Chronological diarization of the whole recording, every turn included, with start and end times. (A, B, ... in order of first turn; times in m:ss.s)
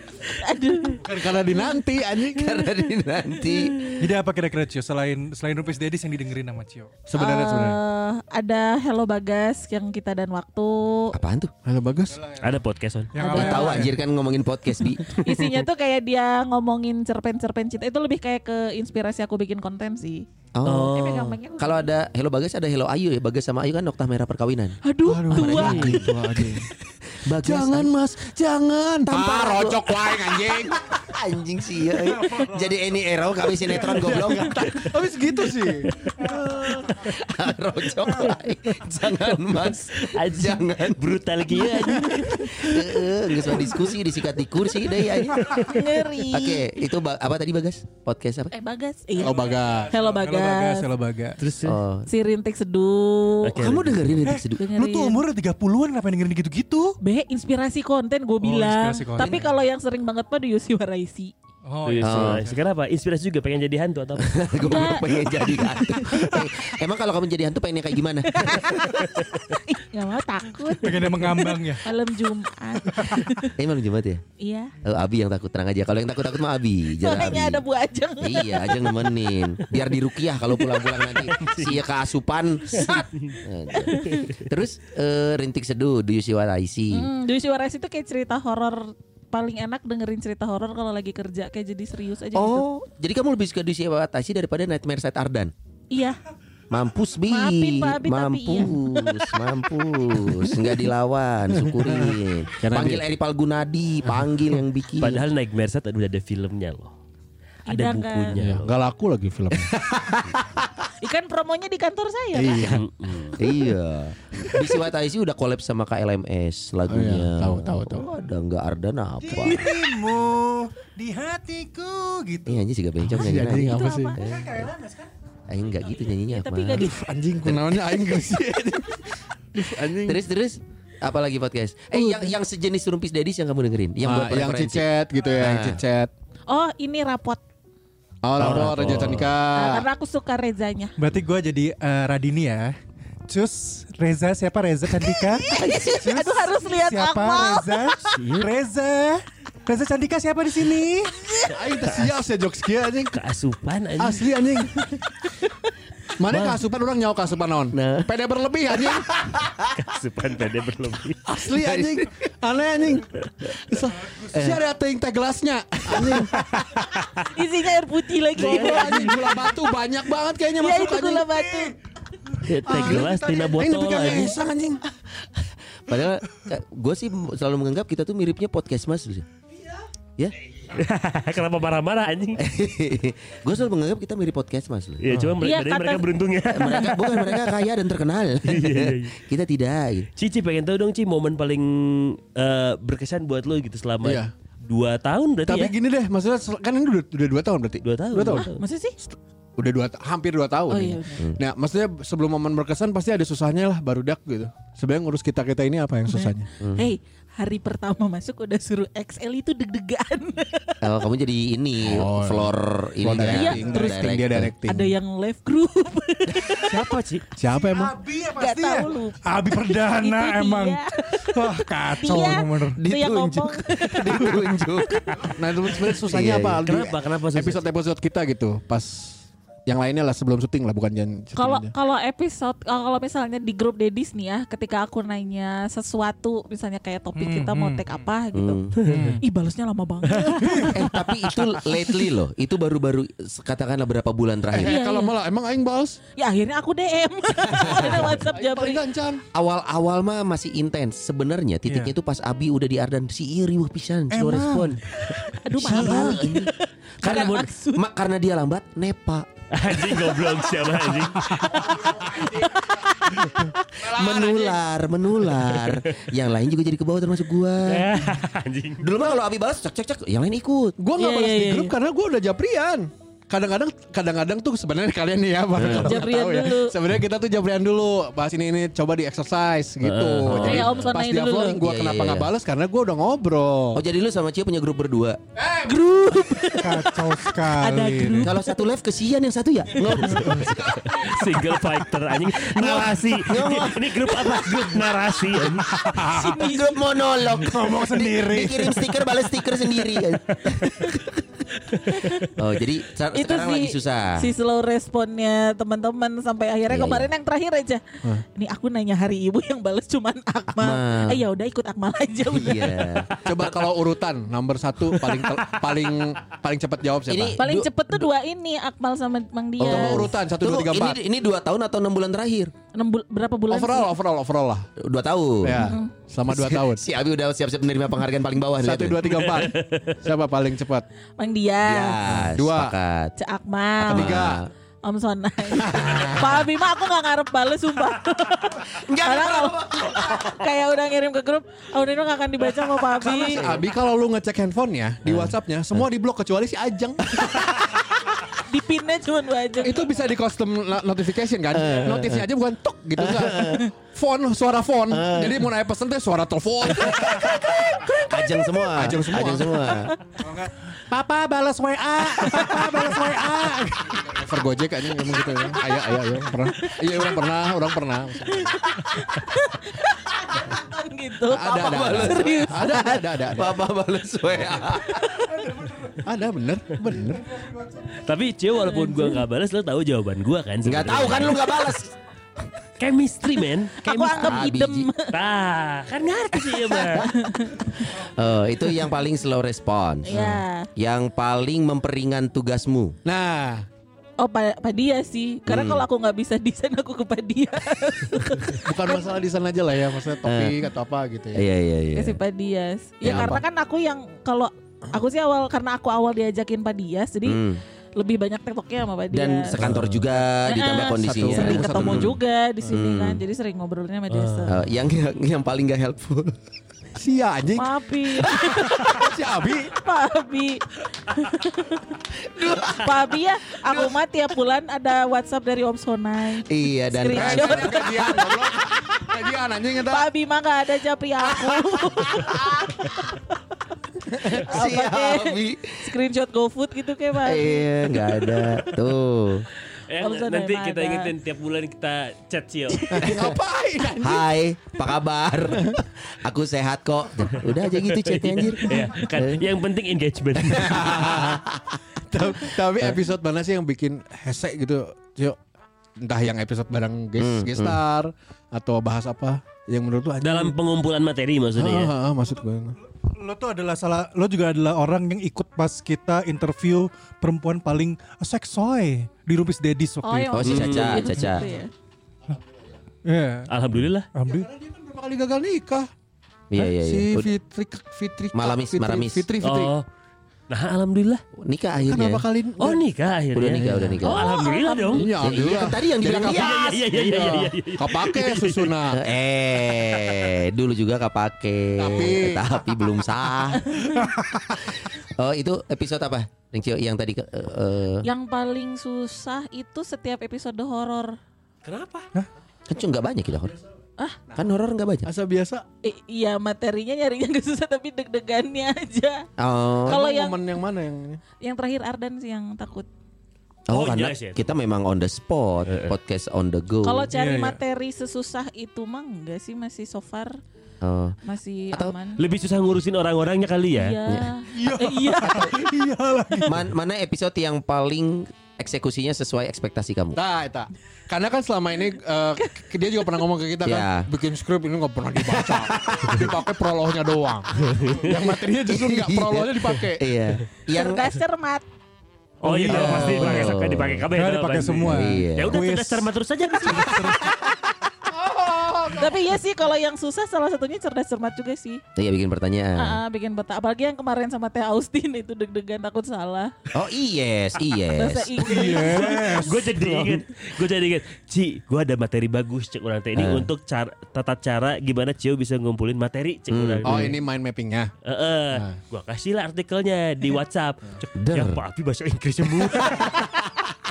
0:00.4-0:01.0 A
0:01.0-0:02.5 B
0:02.3-0:03.9 C
0:03.4-0:03.9 A
0:04.0-0:07.0 D
0:07.1-0:07.8 B
0:07.2-0:11.1 A
0:11.1-0:11.5 C
0:11.6-0:12.2 B
0:12.1-0:12.5 D
0:12.4-0:13.1 E
0:13.1-0:14.0 D
0:13.2-0:13.9 A
0:13.3-0:15.6 C
0:14.8-0:20.2 A
0:20.5-0:24.8 C
0:20.6-0:21.4 E
0:20.8-0:21.9 A
0:24.8-0:26.1 A
0:25.0-0:26.7 B
0:25.3-0:27.9 C
0:27.4-0:30.9 B
0:29.0-0:34.9 C
0:32.0-0:32.7 D
0:33.6-0:34.7 D
0:34.0-0:35.9 B
0:35.9-0:37.1 E
0:36.2-0:36.6 D
0:36.8-0:45.5 C
0:38.7-0:42.8 E
0:45.3-0:45.8 E
0:45.5-0:46.8 A
0:46.3-0:48.5 C
0:48.5-0:50.9 A
0:49.2-0:49.9 B
0:49.3-0:51.4 D
0:51.4-0:51.8 E
0:51.6-0:52.0 C
0:52.1-0:53.8 A
0:53.4-0:54.2 E
0:53.5-0:54.6 C
0:54.2-0:57.0 D
0:54.5-0:55.2 A
0:57.0-1:01.3 A
0:58.4-0:59.6 D
1:01.6-1:02.6 D
1:01.8-1:05.0 E
1:02.0-1:02.4 C
1:04.2-1:08.7 C
1:04.6-1:06.3 A
1:08.3-1:13.5 A
1:10.7-1:11.9 D
1:13.5-1:14.2 C
1:14.4-1:14.7 A
1:14.8-1:17.6 C
1:17.0-1:19.2 A
1:18.2-1:27.1 C
1:21.3-1:21.8 E
1:22.8-1:23.4 E
1:23.7-1:24.3 A
1:26.9-1:32.6 A
1:32.3-1:35.5 C
1:35.9-1:36.2 A
1:36.7-1:45.2 C
1:37.3-1:38.8 A
1:41.5-1:43.0 B
1:45.0-1:46.9 E
1:47.7-1:48.3 A
1:47.7-1:48.8 E
1:48.3-1:50.7 B
1:51.0-1:52.7 A
1:52.3-1:53.7 B
1:52.6-1:53.4 E
1:53.4-1:59.8 C
1:54.3-1:54.8 B
1:56.9-1:58.1 B
1:59.2-2:02.6 D
2:02.4-2:04.7 C
2:03.0-2:04.2 B
2:03.4-2:04.2 A
2:04.2-2:05.1 D
2:05.5-2:06.9 C
2:06.3-2:07.0 A
2:06.8-2:10.2 B
2:07.4-2:08.3 C
2:09.6-2:14.8 C
2:11.9-2:12.3 B
2:14.0-2:16.1 B
2:15.4-2:15.8 C
2:16.5-2:17.4 A
2:18.2-2:19.9 B
2:18.4-2:19.3 C
2:19.5-2:20.9 A
2:21.0-2:31.3 D
2:25.3-2:28.1 A
2:28.1-2:28.5 E
2:31.2-2:31.5 A
2:31.5-2:33.2 B
2:33.1-2:34.3 E
2:34.0-2:34.9 B
2:36.2-2:39.1 B
2:36.3-2:36.6 E
2:37.7-2:38.1 C
2:38.7-2:39.7 C
2:39.7-2:41.2 E
2:41.2-2:46.8 B
2:41.4-2:42.3 C
2:44.3-2:44.6 C
2:45.9-2:46.5 C
2:47.3-2:49.6 A
2:48.4-2:49.2 E
2:48.4-2:51.3 B
2:50.6-2:51.7 A
2:52.4-2:53.6 D
2:52.4-2:54.4 E
2:52.7-2:54.8 B
2:52.7-2:53.0 C
2:53.8-2:54.4 C
2:55.2-2:59.2 C
3:00.7-3:02.4 E
3:02.4-3:05.0 C
3:05.0-3:07.4 E
3:05.4-3:06.1 A
3:06.5-3:10.1 C
3:06.6-3:07.0 A
3:08.4-3:09.2 E
3:10.2-3:15.7 E
3:14.0-3:14.3 B
3:15.5-3:18.5 B
3:17.8-3:18.6 E
3:18.4-3:19.0 A
3:19.0-3:26.5 B
3:20.7-3:21.3 A
3:26.1-3:30.9 A
3:26.6-3:26.9 C
3:30.8-3:34.5 C
3:31.8-3:34.9 B
3:33.2-3:34.1 A
3:34.6-3:37.0 A
3:36.7-3:37.2 E
3:36.7-3:42.8 D
3:37.4-3:38.0 B
3:38.4-3:45.3 A
3:42.8-3:45.2 C
3:45.3-3:51.7 B
3:45.9-3:46.6 C
3:46.6-3:47.6 E
3:51.3-3:58.7 A
3:57.2-3:58.0 D
3:58.3-3:58.7 C
3:58.8-3:59.2 D
3:59.2-4:01.7 A
4:00.3-4:00.7 D
4:00.7-4:04.8 C
4:04.5-4:06.0 B
4:04.6-4:05.1 A
4:06.2-4:08.8 A
4:07.5-4:09.2 B
4:07.6-4:08.1 C
4:09.3-4:14.8 C
4:11.7-4:11.9 D
4:14.1-4:15.2 D
4:15.2-4:17.9 A
4:15.5-4:16.5 C
4:17.0-4:20.0 C
4:17.0-4:17.5 E
4:19.5-4:21.5 E
4:21.2-4:21.5 D
4:21.5-4:23.5 A
4:23.4-4:28.0 C
4:23.8-4:24.6 B
4:25.3-4:26.0 E
4:27.6-4:28.9 E
4:28.8-4:30.8 C
4:30.8-4:43.8 B
4:31.0-4:31.7 A
4:35.5-4:36.0 C
4:35.7-4:36.7 A
4:39.8-4:40.8 E
4:40.2-4:40.7 C
4:40.4-4:41.6 A
4:41.4-4:42.3 C
4:43.7-4:45.2 C
4:45.4-4:46.5 B
4:45.7-4:46.9 A
4:46.6-4:48.4 D
4:47.5-4:48.4 E
4:48.2-4:51.0 C
4:49.8-4:56.0 E
4:50.4-4:51.3 B
4:52.5-4:54.8 C
4:52.5-4:52.9 B
4:55.6-4:56.3 D
4:55.9-4:56.9 A
4:56.0-5:01.2 C
4:57.2-4:59.1 D
5:01.7-5:02.1 E
5:01.9-5:02.3 A
5:02.3-5:04.3 C
5:03.1-5:07.8 A
5:06.7-5:07.1 C
5:08.3-5:13.0 A
5:10.5-5:11.2 C
5:12.3-5:13.7 C
5:13.2-5:17.4 B
5:15.0-5:16.0 E
5:17.1-5:18.0 C
5:17.4-5:20.1 A
5:19.6-5:22.5 C
5:19.6-5:21.0 B
5:22.7-5:23.9 A
5:23.5-5:24.7 B
5:24.8-5:25.7 C
5:25.4-5:26.8 B
5:25.6-5:25.9 A
5:26.3-5:29.2 C
5:28.6-5:30.8 B
5:29.1-5:29.9 E
5:31.2-5:32.0 A
5:31.6-5:33.1 C
5:32.0-5:32.7 B
5:33.2-5:34.3 A
5:33.8-5:34.5 C
5:33.8-5:34.4 B
5:34.8-5:43.6 A
5:35.5-5:36.4 C
5:35.6-5:36.4 B
5:38.7-5:40.5 C
5:43.0-5:48.1 B
5:43.3-5:43.7 C
5:45.0-5:45.9 C
5:47.1-5:47.7 C
5:48.4-5:49.9 A
5:49.6-5:58.0 B
5:51.5-5:52.3 C
5:53.0-5:53.7 C
5:54.9-5:55.5 C
5:56.6-5:59.9 C
5:57.3-5:58.4 A
5:58.7-5:59.7 B
5:59.6-5:59.9 A
6:00.2-6:03.8 D
6:02.0-6:08.6 B
6:05.2-6:05.7 A
6:06.6-6:07.2 A
6:08.3-6:13.0 A
6:11.3-6:13.6 B
6:11.5-6:15.2 C
6:14.9-6:15.5 A
6:16.0-6:17.3 B
6:18.0-6:21.6 E
6:18.5-6:19.2 A
6:20.6-6:21.9 C
6:22.8-6:24.4 E
6:23.7-6:25.2 A
6:24.2-6:24.9 C
6:25.1-6:27.1 E
6:26.7-6:28.0 A
6:26.7-6:33.0 C
6:30.0-6:30.7 A
6:33.0-6:33.6 B
6:34.2-6:39.1 A
6:35.5-6:35.8 C
6:38.6-6:41.4 B
6:40.2-6:40.6 C
6:41.3-6:42.2 C
6:41.9-6:47.4 A
6:43.0-6:43.4 C
6:43.0-6:43.4 B
6:47.2-6:47.6 C
6:48.0-6:49.6 A
6:49.1-6:53.2 C
6:49.6-6:50.2 B
6:50.4-6:54.6 A
6:50.9-6:52.1 B
6:54.1-6:54.5 E
6:54.5-6:56.4 C
6:56.9-6:59.7 B
6:57.5-7:01.9 A
7:02.1-7:03.0 C
7:02.6-7:08.4 A
7:06.5-7:08.5 C
7:07.1-7:10.1 B
7:09.8-7:13.6 A
7:11.3-7:12.3 B
7:14.2-7:16.0 C
7:14.3-7:18.6 A
7:17.2-7:19.5 C
7:19.9-7:23.1 E
7:19.9-7:21.1 A
7:22.9-7:24.3 B
7:22.9-7:23.4 C
7:24.0-7:29.5 C
7:27.5-7:31.3 E
7:30.4-7:35.4 B
7:30.7-7:31.4 C
7:32.7-7:33.0 C
7:36.0-7:40.5 B
7:37.2-7:37.8 C
7:40.2-7:41.9 E
7:41.6-7:42.8 B
7:43.0-7:51.4 D
7:50.0-7:51.7 A
7:50.3-7:51.5 C
7:50.4-7:51.2 E
7:53.0-7:53.5 D
7:53.5-7:54.1 E
7:54.1-7:54.5 D
7:54.3-7:55.9 B
7:56.5-7:57.3 C
7:56.5-7:59.7 B
7:58.3-7:59.2 C
7:59.4-7:59.8 E
8:00.5-8:01.2 E
8:01.4-8:02.2 C
8:01.8-8:02.8 B
8:02.6-8:05.2 E
8:03.3-8:04.4 C
8:03.5-8:04.0 B
8:04.0-8:05.1 A
8:04.9-8:09.0 B
8:05.2-8:06.7 C
8:06.1-8:08.8 E
8:08.9-8:13.7 C
8:11.8-8:12.5 B
8:13.6-8:14.1 A
8:14.0-8:14.3 D
8:14.7-8:18.1 C
8:18.0-8:21.2 A
8:21.6-8:22.1 E
8:22.7-8:23.6 C
8:24.3-8:25.1 C
8:25.0-8:25.6 B
8:25.8-8:29.2 A
8:29.4-8:30.0 C
8:29.8-8:30.4 A
8:29.8-8:31.2 B
8:31.4-8:32.9 A
8:33.7-8:37.1 C
8:33.7-8:34.4 E
8:35.7-8:35.9 E
8:36.8-8:40.4 A
8:37.1-8:37.6 D
8:40.8-8:41.2 C
8:41.2-8:42.2 A
8:42.2-8:44.0 E
8:43.7-8:45.5 A
8:44.0-8:44.3 C
8:44.5-8:46.6 D
8:45.2-8:45.6 C
8:46.4-8:50.2 C
8:50.1-9:00.0 B
8:53.6-8:54.1 C
8:55.5-8:56.2 C
8:57.8-8:58.1 E
8:58.6-9:01.2 C
9:00.7-9:01.6 A
9:02.4-9:03.3 D
9:02.4-9:07.2 E
9:02.7-9:03.5 B
9:02.7-9:04.0 C
9:04.1-9:06.1 D
9:04.8-9:05.6 C
9:06.6-9:07.3 D
9:08.1-9:09.2 B
9:08.9-9:11.8 A
9:11.9-9:13.0 C
9:12.8-9:16.5 A
9:16.7-9:18.4 C
9:17.9-9:19.1 A
9:18.4-9:20.2 D
9:18.4-9:19.5 B
9:18.6-9:27.1 E
9:23.1-9:23.5 C
9:26.5-9:27.2 C
9:26.8-9:27.9 B
9:28.0-9:33.3 E
9:28.5-9:28.8 B
9:31.2-9:31.6 C
9:32.6-9:33.1 B